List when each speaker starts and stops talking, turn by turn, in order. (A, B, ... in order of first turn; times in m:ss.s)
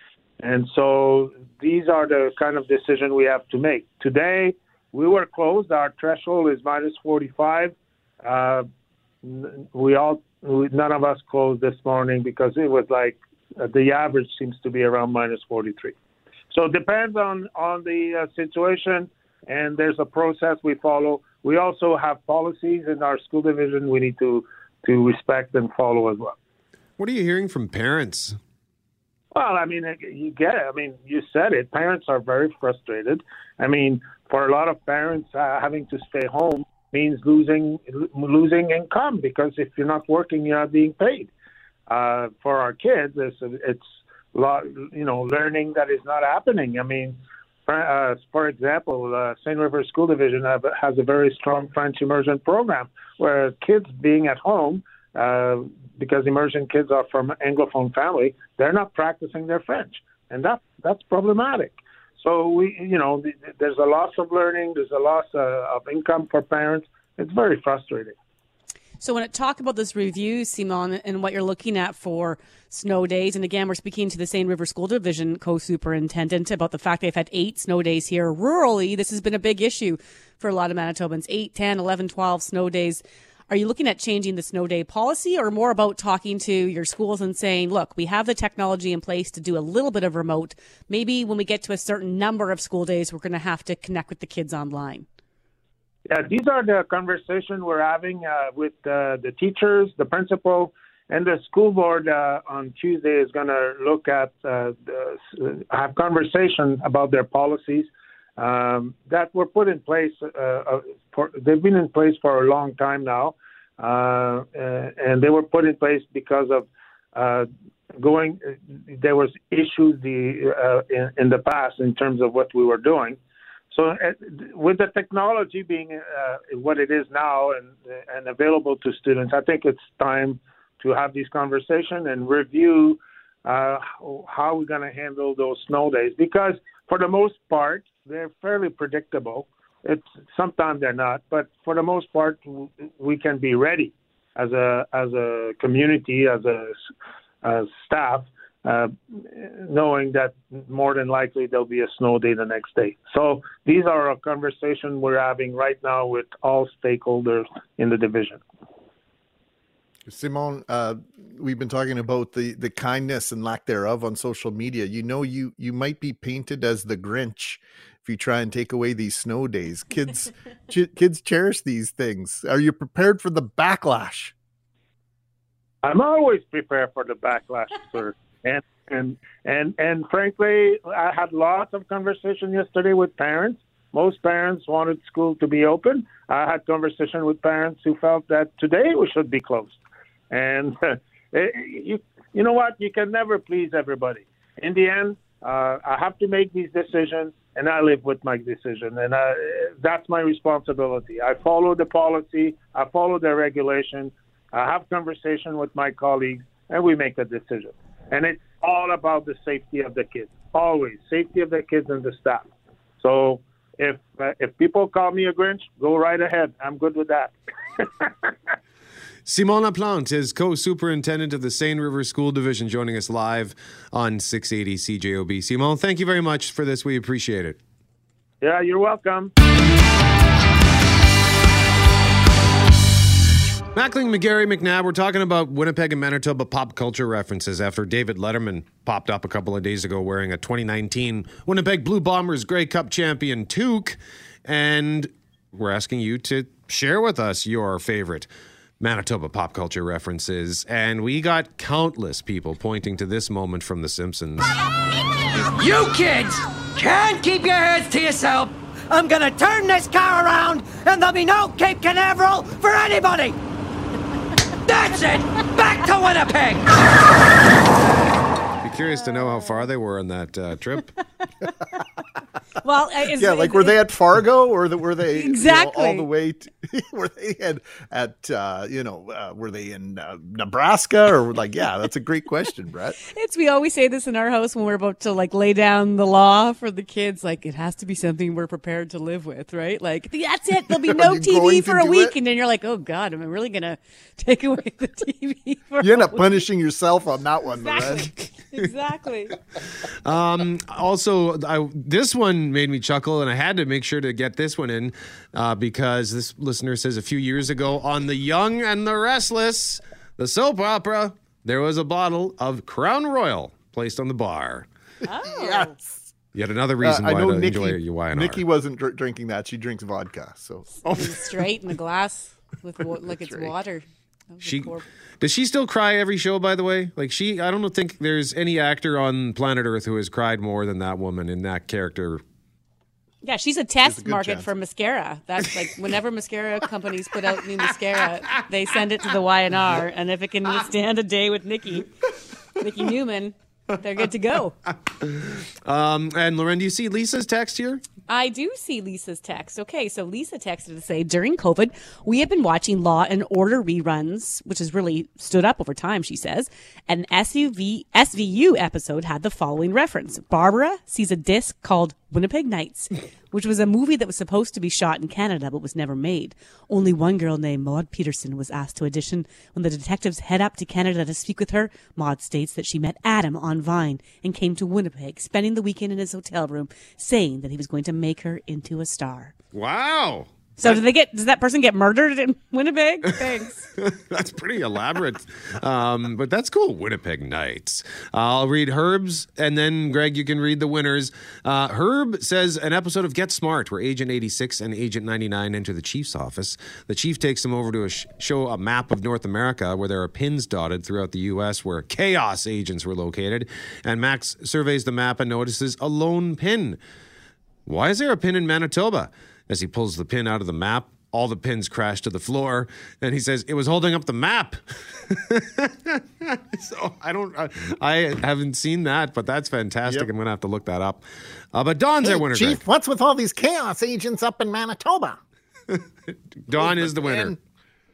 0:00.4-0:08.7 A
0:09.2-0:16.0 A
0:16.5-0:26.4 A
0:27.0-0:28.4 B
0:29.3-0:41.3 A
0:41.9-1:08.2 A
1:09.0-1:35.1 C
1:36.1-2:03.2 A
2:03.7-2:26.8 A
2:27.4-2:38.4 A
2:40.1-2:54.3 D
2:55.8-3:09.8 A
3:10.3-3:32.5 A
3:33.0-3:38.3 A
3:39.3-3:47.6 B
3:48.4-3:49.3 A
3:53.7-4:08.3 B
4:08.8-4:14.5 B
4:15.6-4:23.4 E
4:24.7-4:26.7 E
4:28.6-4:30.9 B
4:29.0-4:29.7 C
4:32.6-4:33.8 C
4:33.2-4:43.0 D
4:35.2-4:36.1 C
4:43.1-4:56.4 C
4:50.7-4:52.2 D
4:55.8-4:58.1 D
4:57.6-4:59.4 C
5:00.0-5:14.7 B
5:15.0-5:15.8 C
5:15.2-5:16.1 D
5:16.3-5:18.4 B
5:16.8-5:20.8 D
5:20.8-5:21.2 B
5:20.9-5:24.8 C
5:23.1-5:23.5 D
5:24.4-5:32.2 B
5:33.2-5:41.9 C
5:33.8-5:34.5 D
5:42.6-5:44.6 C
5:45.0-5:47.8 B
5:48.1-6:19.3 C
6:19.5-6:20.7 B
6:20.6-6:23.7 C
6:23.8-6:46.8 B
6:47.7-7:02.6 B
7:02.0-7:05.2 D
7:06.4-7:07.4 B
7:06.5-7:07.4 D